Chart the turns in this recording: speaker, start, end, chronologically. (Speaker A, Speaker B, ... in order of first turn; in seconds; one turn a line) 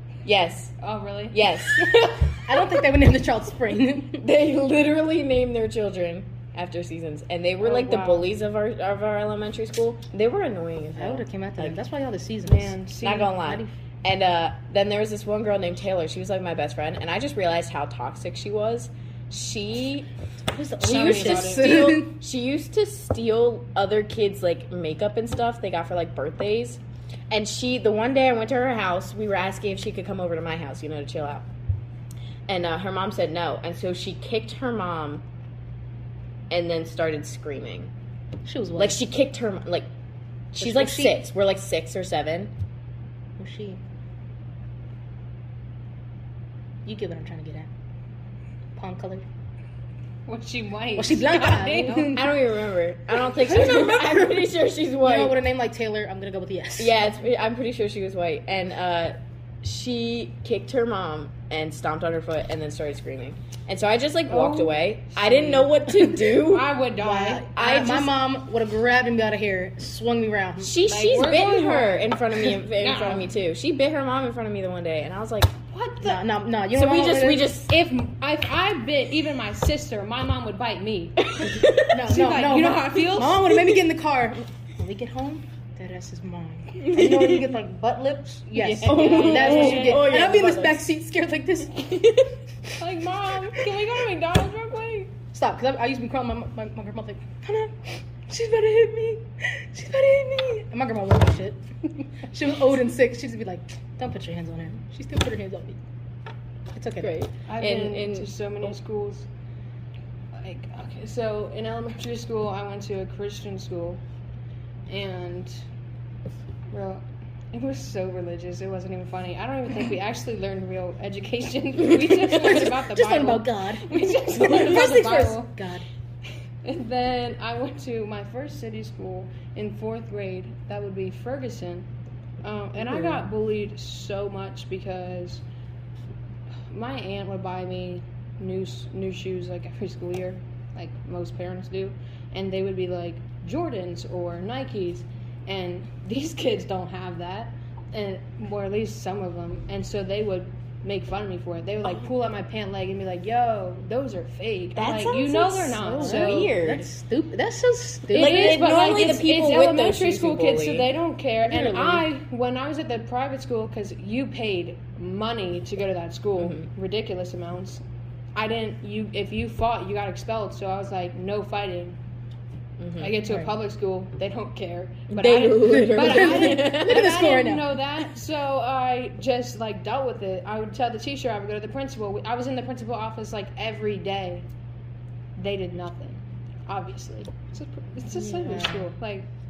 Speaker A: 0.2-0.8
Speaker B: 0.8-2.5
Speaker A: 1.3-2.3
Speaker C: 2.5-4.2
Speaker A: 4.2-11.8
Speaker B: 7.6-8.3
Speaker C: 11.0-12.8
Speaker B: 12.4-13.4
Speaker A: 13.0-20.1
Speaker C: 13.4-13.7
Speaker C: 20.5-22.2
Speaker B: 20.8-21.9
Speaker A: 20.8-31.5
Speaker A: 32.5-35.2
Speaker A: 36.5-37.9
Speaker C: 38.5-39.0
Speaker A: 38.8-39.9
Speaker A: 40.5-42.5
Speaker C: 40.6-41.2
Speaker C: 43.4-43.8
Speaker C: 46.9-47.7
Speaker C: 48.8-49.3
Speaker B: 50.3-52.2
Speaker C: 51.0-52.3
Speaker A: 52.1-55.4
Speaker C: 53.4-54.4
Speaker B: 53.5-53.9
Speaker C: 55.0-57.0
Speaker A: 56.8-66.7
Speaker B: 64.3-67.5
Speaker C: 65.9-66.2
Speaker C: 67.0-70.8
Speaker A: 67.5-68.1
Speaker A: 70.6-75.5
Speaker B: 70.8-73.3
Speaker B: 75.7-76.2
Speaker C: 76.0-77.5
Speaker A: 76.7-77.7
Speaker B: 77.7-83.5
Speaker A: 81.2-82.1
Speaker C: 81.9-91.9
Speaker A: 86.8-87.5
Speaker B: 88.5-90.0
Speaker A: 88.8-90.8
Speaker A: 91.8-92.3
Speaker B: 92.8-95.1
Speaker C: 95.3-105.8
Speaker C: 106.7-107.2
Speaker A: 107.0-108.7
Speaker B: 107.5-109.3
Speaker B: 110.3-114.0
Speaker B: 114.9-115.6
Speaker B: 116.7-125.5
Speaker C: 122.4-125.9
Speaker B: 126.6-131.9
Speaker B: 132.4-135.4
Speaker C: 132.8-133.3
Speaker B: 136.7-156.5
Speaker A: 154.8-156.9
Speaker C: 155.9-158.6
Speaker A: 158.1-160.9
Speaker B: 158.1-167.8
Speaker C: 161.5-162.0
Speaker A: 166.4-166.7
Speaker B: 168.3-172.0
Speaker A: 172.8-173.2
Speaker B: 173.0-184.5
Speaker C: 173.2-173.6
Speaker A: 175.1-177.1
Speaker C: 175.9-177.7
Speaker B: 185.4-189.3
Speaker C: 188.3-188.9